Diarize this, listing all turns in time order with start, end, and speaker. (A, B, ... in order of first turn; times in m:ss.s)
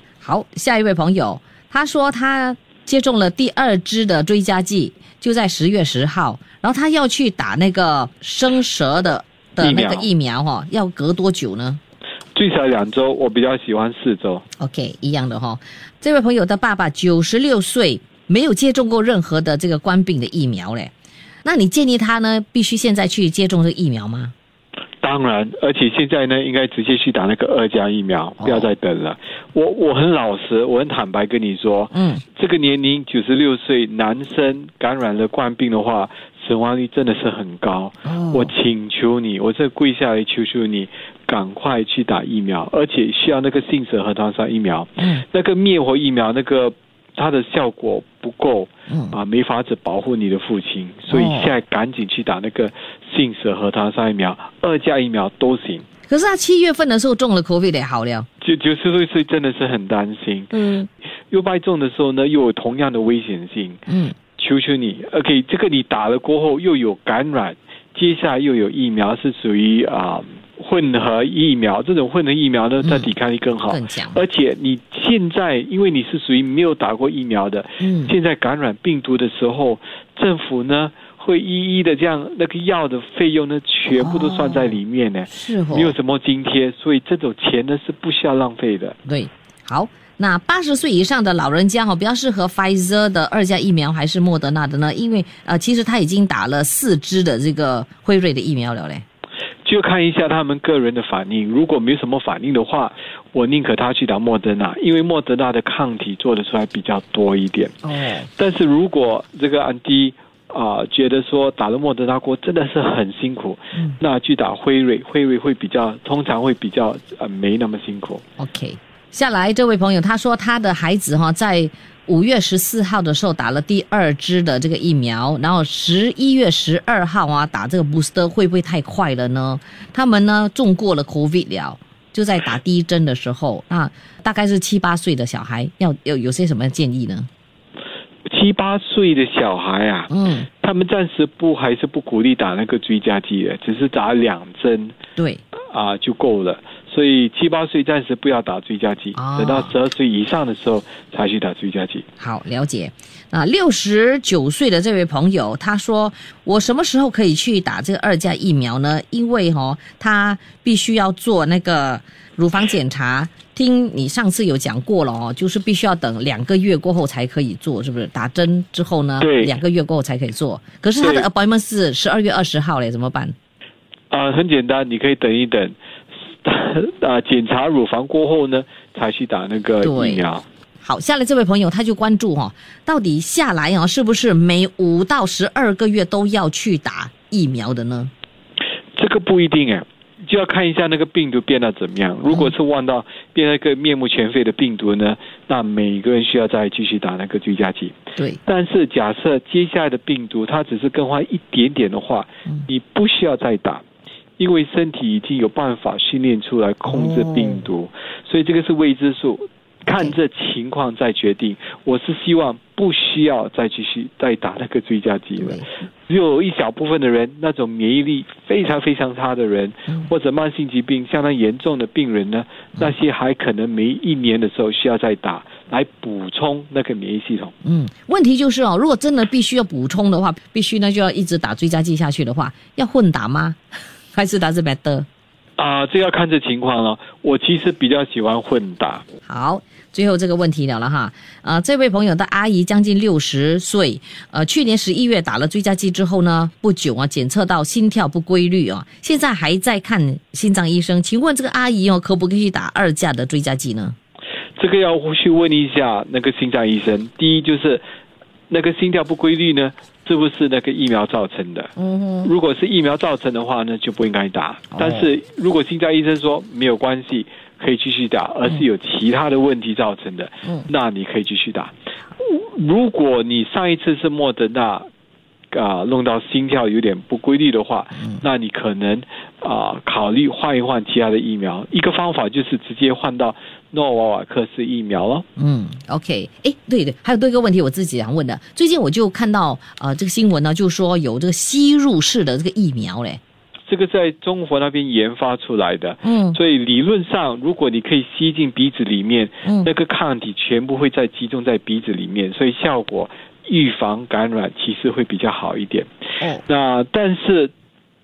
0:00.2-0:11.8 A
0:09.6-0:10.1 B
0:12.3-0:14.4 B
0:14.6-0:20.9 A
0:21.4-0:24.3 A
0:25.0-0:55.8 B
0:28.4-0:28.7 A
0:31.9-0:32.2 A
0:38.0-0:38.5 A
0:45.0-0:45.2 A
0:48.9-0:49.2 A
0:51.1-0:51.5 A
0:56.1-0:58.3 A
0:58.4-1:00.5 B
1:00.5-1:00.9 A
1:01.3-1:03.8 B
1:03.9-1:04.2 A
1:04.4-1:29.0 B
1:12.8-1:13.1 A
1:13.6-1:14.2 A
1:17.8-1:18.1 A
1:23.9-1:24.8 A
1:25.3-1:25.9 A
1:29.0-1:39.0 A
1:39.6-1:47.7 B
1:47.8-1:48.3 A
1:48.4-1:58.2 B
1:58.4-2:17.3 A
2:18.2-2:20.1 B
2:20.1-2:20.5 A
2:20.6-2:25.0 B
2:25.2-2:25.4 A
2:25.7-2:32.0 B
2:29.1-2:29.7 A
2:32.2-2:53.3 A
2:49.2-2:49.5 B
2:51.0-2:51.3 B
2:54.1-2:55.7 B
2:56.4-3:00.4 B
2:59.8-3:00.3 A
3:00.8-3:08.1 A
3:09.0-3:23.8 B
3:24.4-3:47.5 B
3:26.9-3:27.6 A
3:29.9-3:30.1 A
3:35.4-3:35.8 A
3:47.6-3:53.6 A
3:54.1-3:55.1 A
3:55.6-3:59.0 B
3:59.2-4:13.9 A
4:14.6-4:17.8 B
4:18.5-4:21.7 B
4:21.8-4:22.3 A
4:22.2-4:34.8 B
4:24.7-4:25.1 A
4:35.5-4:45.2 B
4:45.4-4:53.2 A
4:53.7-5:05.9 B
4:56.0-4:56.4 A
4:59.4-4:59.7 A
5:06.4-5:07.5 B